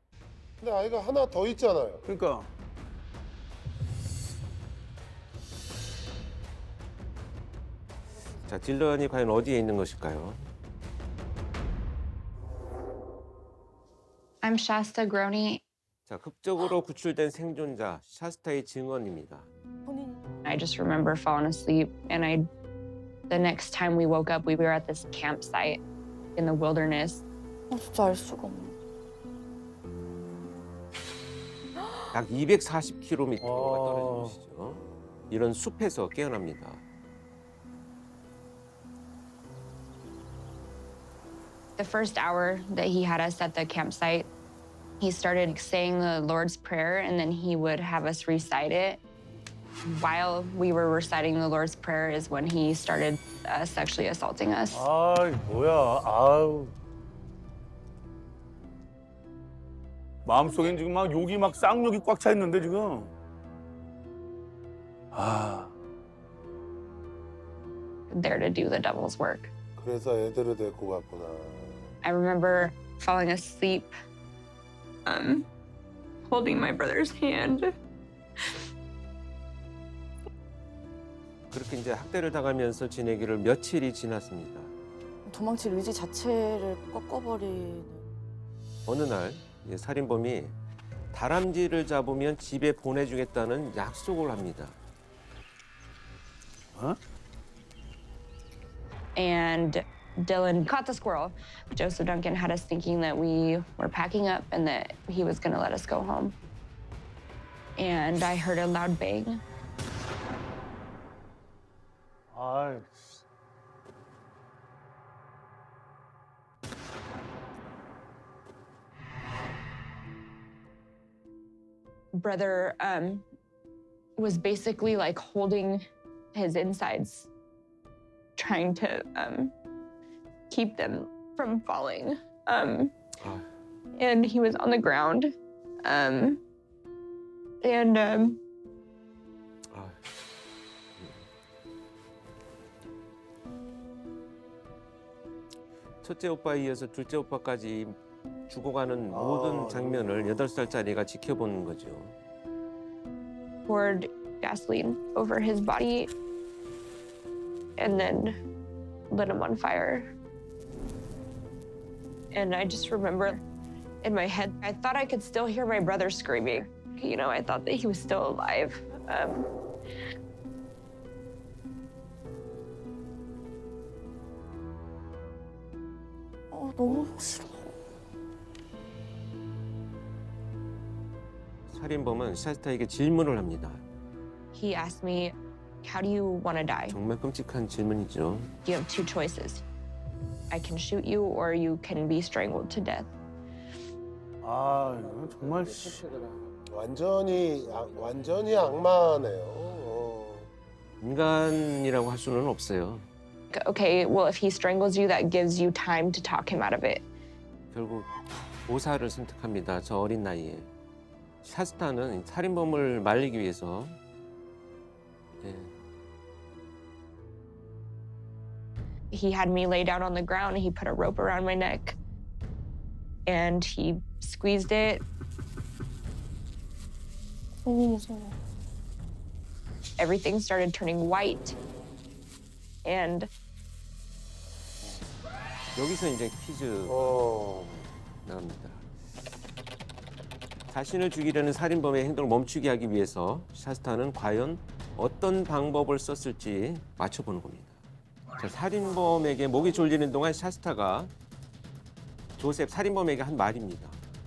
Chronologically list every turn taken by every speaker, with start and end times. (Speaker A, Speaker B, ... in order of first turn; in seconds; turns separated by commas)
Speaker A: 0.6-2.0, Speaker B: 2.0-2.5, Speaker C: 8.4-10.5, Speaker D: 14.4-15.6, Speaker C: 16.1-19.5, Speaker E: 19.8-20.2, Speaker D: 20.4-22.5, Speaker D: 23.3-25.8, Speaker D: 26.4-27.2, Speaker E: 27.7-28.7, Speaker C: 32.1-36.8, Speaker B: 33.4-34.4, Speaker D: 41.8-44.3, Speaker D: 45.0-49.0, Speaker D: 49.8-54.8, Speaker B: 54.7-56.7, Speaker B: 60.2-63.1, Speaker B: 65.1-65.7, Speaker D: 68.1-69.5, Speaker A: 69.8-71.9, Speaker D: 72.0-73.9, Speaker D: 75.0-75.5, Speaker D: 76.3-77.7, Speaker C: 81.5-84.7, Speaker E: 85.2-88.1, Speaker C: 88.8-90.5, Speaker C: 91.1-94.8, Speaker B: 96.7-97.0, Speaker D: 99.2-106.3, Speaker D: 107.8-109.4, Speaker B: 112.3-113.2, Speaker D: 122.2-123.2, Speaker D: 124.2-125.8, Speaker D: 126.3-127.3, Speaker D: 128.4-129.5, Speaker D: 130.5-132.9, Speaker C: 133.2-133.4, Speaker D: 134.0-136.4, Speaker D: 137.6-138.4, Speaker C: 139.7-140.0, Speaker C: 146.0-148.0, Speaker C: 148.5-152.1, Speaker B: 149.1-150.3, Speaker D: 153.7-156.1, Speaker D: 157.8-158.3, Speaker D: 159.1-160.1, Speaker D: 162.3-163.4, Speaker D: 164.0-169.5, Speaker E: 176.5-177.7, Speaker C: 181.7-183.8, Speaker D: 184.5-186.9, Speaker C: 186.9-188.5, Speaker D: 188.6-189.6, Speaker D: 190.5-193.1, Speaker B: 194.4-196.1, Speaker A: 196.7-200.5, Speaker C: 201.0-203.1, Speaker D: 203.5-207.0, Speaker C: 207.7-208.1, Speaker C: 208.7-210.7, Speaker C: 211.4-213.9, Speaker C: 215.4-215.7, Speaker D: 219.1-222.0, Speaker D: 223.3-225.0, Speaker E: 227.6-228.3, Speaker D: 230.0-231.5, Speaker D: 232.8-233.3, Speaker C: 235.7-238.8, Speaker A: 236.9-237.7, Speaker C: 240.7-247.8, Speaker C: 248.4-251.1, Speaker C: 252.4-254.0